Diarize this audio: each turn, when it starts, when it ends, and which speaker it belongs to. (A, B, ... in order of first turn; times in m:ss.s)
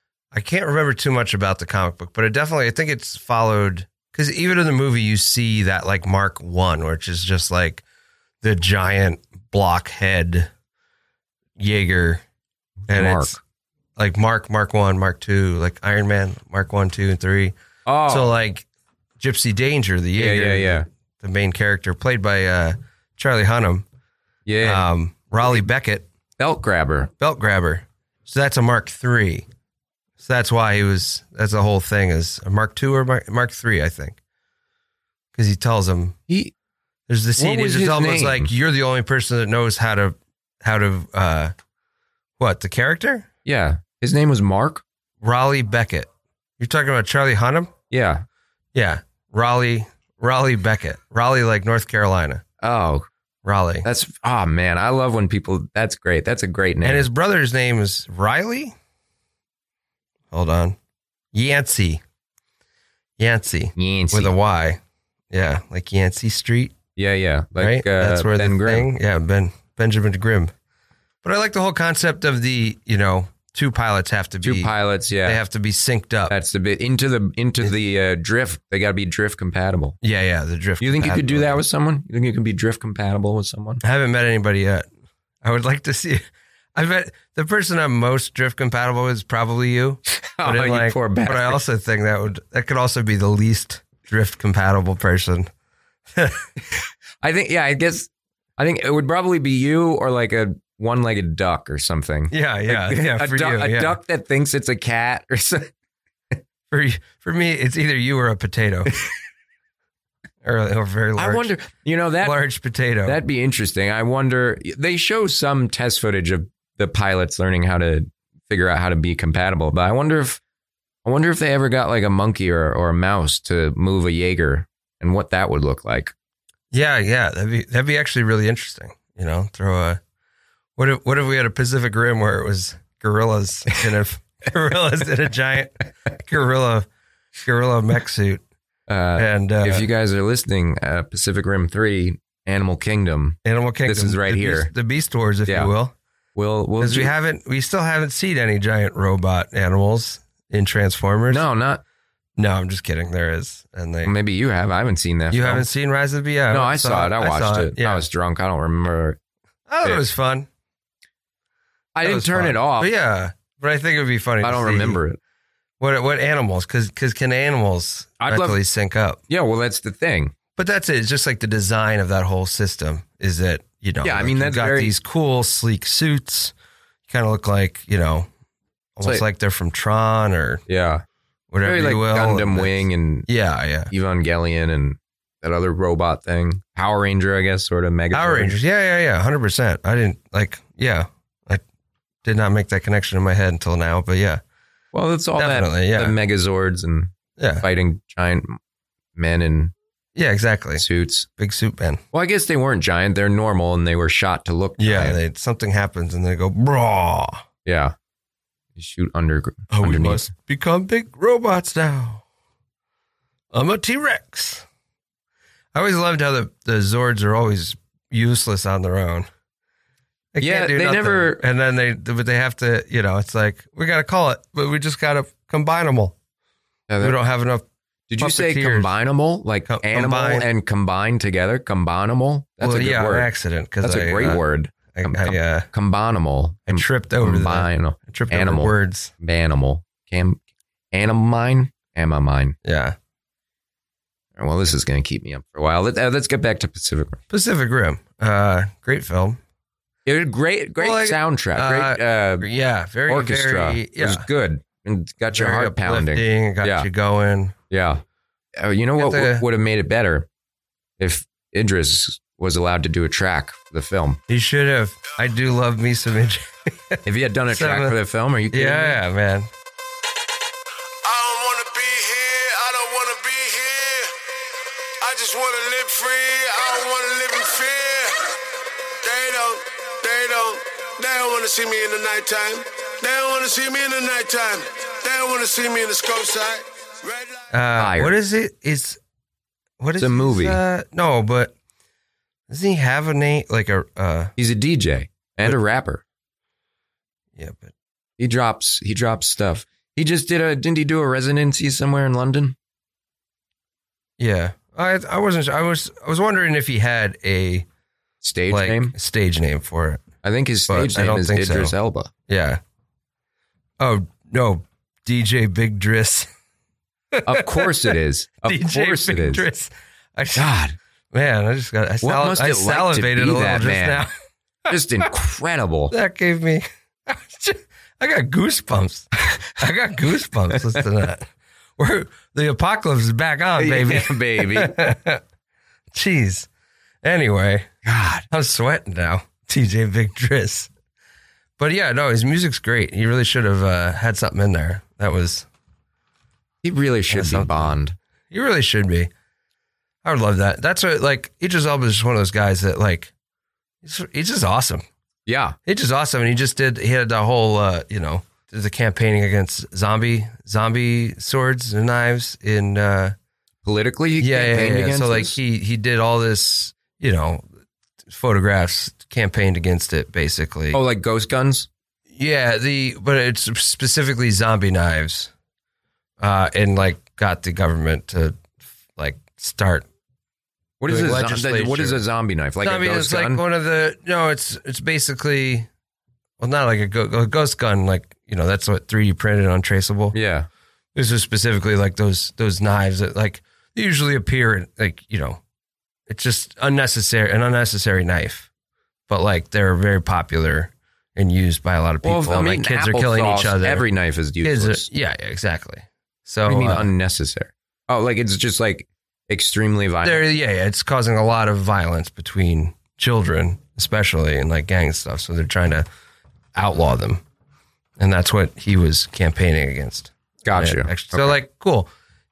0:00.3-0:07.8 A
0:08.4-0:10.5 A
0:11.6-0:12.2 A
0:12.8-0:13.4 B
0:12.9-0:13.4 A
0:14.0-0:17.5 A
0:17.8-0:18.3 B
0:18.1-0:18.6 A
0:19.2-0:23.8 A
0:20.1-0:20.8 B
0:24.4-0:24.8 B
0:24.6-0:26.1 A
0:26.4-0:27.1 B
0:27.2-0:29.4 A
0:30.2-0:34.2 A
0:35.3-0:36.2 A
0:37.1-0:41.5 A
0:37.4-0:38.5 B
0:42.4-0:43.3 A
0:43.4-0:44.8 B
0:45.2-0:47.7 A
0:47.9-0:48.2 B
0:48.7-0:52.4 A
0:52.6-0:53.1 B
0:53.4-0:53.9 A
0:53.8-0:57.1 B
0:56.8-0:58.7 A
1:00.3-1:00.8 A
1:01.3-1:02.0 A
1:03.2-1:04.8 A
1:03.8-1:04.3 B
1:05.3-1:06.7 A
1:07.0-1:08.9 B
1:07.6-1:10.5 A
1:11.2-1:14.7 A
1:14.4-1:15.4 B
1:15.2-1:16.3 A
1:16.3-1:20.0 B
1:20.0-1:21.6 A
1:20.8-1:23.8 B
1:23.8-1:24.8 A
1:25.4-1:26.2 A
1:26.7-1:35.5 A
1:30.1-1:31.6 B
1:36.1-1:36.4 A
1:37.2-1:45.7 B
1:42.3-1:43.9 A
1:46.7-1:48.9 A
1:50.4-1:51.5 A
1:51.2-1:52.4 B
1:52.2-1:53.2 A
1:53.0-2:00.4 B
2:01.0-2:06.1 B
2:06.7-2:10.0 A
2:10.8-2:16.9 A
2:17.4-2:18.4 A
2:18.9-2:24.7 B
2:19.2-2:19.9 A
2:23.4-2:25.9 A
2:25.5-2:25.7 B
2:26.4-2:27.1 B
2:26.8-2:31.4 A
2:31.3-2:31.8 B
2:32.4-2:34.1 A
2:34.0-2:35.7 B
2:35.3-2:38.0 A
2:36.5-2:39.2 B
2:39.7-2:40.5 A
2:41.9-2:42.9 B
2:42.0-2:45.0 A
2:44.4-2:45.2 B
2:45.8-2:49.2 A
2:48.2-2:48.6 B
2:49.3-2:50.3 B
2:50.6-2:56.5 A
2:54.0-2:54.9 B
2:57.1-2:58.3 A
2:59.0-3:00.6 A
3:00.7-3:01.0 B
3:01.5-3:03.9 A
3:01.6-3:03.3 B
3:03.9-3:08.6 B
3:08.1-3:11.6 A
3:12.2-3:14.4 A
3:14.9-3:18.6 B
3:15.4-3:16.2 A
3:17.4-3:17.6 A
3:19.2-3:19.7 B
3:20.2-3:20.8 A
3:20.8-3:21.3 B
3:21.4-3:22.0 A
3:22.1-3:25.2 B
3:24.8-3:27.4 A
3:27.6-3:27.9 B
3:28.8-3:30.2 B
3:29.7-3:32.2 A
3:33.5-3:34.6 A
3:35.7-3:39.3 A
3:40.3-3:46.1 A
3:40.4-3:41.4 B
3:46.9-3:47.2 B
3:47.0-3:47.6 A
3:48.1-3:53.3 B
3:48.2-3:48.9 A
3:49.7-3:50.4 A
3:52.6-3:54.4 A
3:53.8-4:00.4 B
3:54.9-3:55.7 A
3:56.7-3:59.1 A
4:00.9-4:02.6 B
4:02.6-4:03.0 A
4:04.4-4:07.2 B
4:07.3-4:09.4 A
4:10.0-4:12.5 B
4:10.8-4:14.2 A
4:13.1-4:16.9 B
4:15.3-4:17.5 A
4:17.7-4:18.0 B
4:18.6-4:20.3 B
4:19.0-4:19.4 A
4:21.0-4:24.2 B
4:24.3-4:27.0 A
4:27.0-4:29.0 B
4:27.5-4:28.0 A
4:28.5-4:29.5 A
4:31.0-4:38.3 C
4:39.0-4:47.5 C
4:47.5-4:49.0 A
4:47.8-4:48.1 B
4:49.8-4:51.5 A
4:50.0-4:50.6 B
4:52.5-4:54.3 A
4:54.4-4:56.0 B
4:57.4-4:57.7 A
4:58.2-5:02.6 B
5:04.2-5:07.6 A
5:08.2-5:08.9 B
5:08.5-5:10.0 A
5:10.2-5:12.1 B
5:10.7-5:11.7 A
5:12.3-5:12.6 A
5:13.8-5:16.3 A
5:17.1-5:17.9 A
5:17.2-5:19.4 B
5:18.4-5:20.5 A
5:20.3-5:20.8 B
5:21.1-5:24.1 A
5:22.0-5:24.0 B
5:24.7-5:25.9 B
5:25.9-5:35.2 A
5:33.6-5:34.8 B
5:35.9-5:36.5 A
5:37.0-5:37.7 A
5:37.8-5:38.2 B
5:38.3-5:40.7 A
5:41.6-5:45.4 A
5:46.6-5:48.0 B
5:47.1-5:47.7 A
5:48.3-5:49.1 A
5:50.0-5:53.1 A
5:53.8-5:54.8 A
5:55.2-5:55.6 B
5:55.6-6:03.1 A
6:03.6-6:05.4 B
6:04.2-6:07.4 A
6:08.1-6:10.8 A
6:10.7-6:11.7 B
6:12.1-6:15.3 A
6:16.2-6:18.4 A
6:19.0-6:19.8 A
6:20.8-6:23.4 B
6:20.9-6:22.0 A
6:22.6-6:25.7 A
6:26.4-6:30.2 A
6:30.1-6:30.5 B
6:30.9-6:35.4 A
6:36.1-6:38.5 A
6:39.1-6:43.8 A
6:42.0-6:44.9 B
6:44.4-6:46.9 A
6:46.4-6:50.2 B
6:50.0-6:55.8 A
6:56.6-6:57.2 A
6:58.0-7:01.9 A
7:00.4-7:01.4 B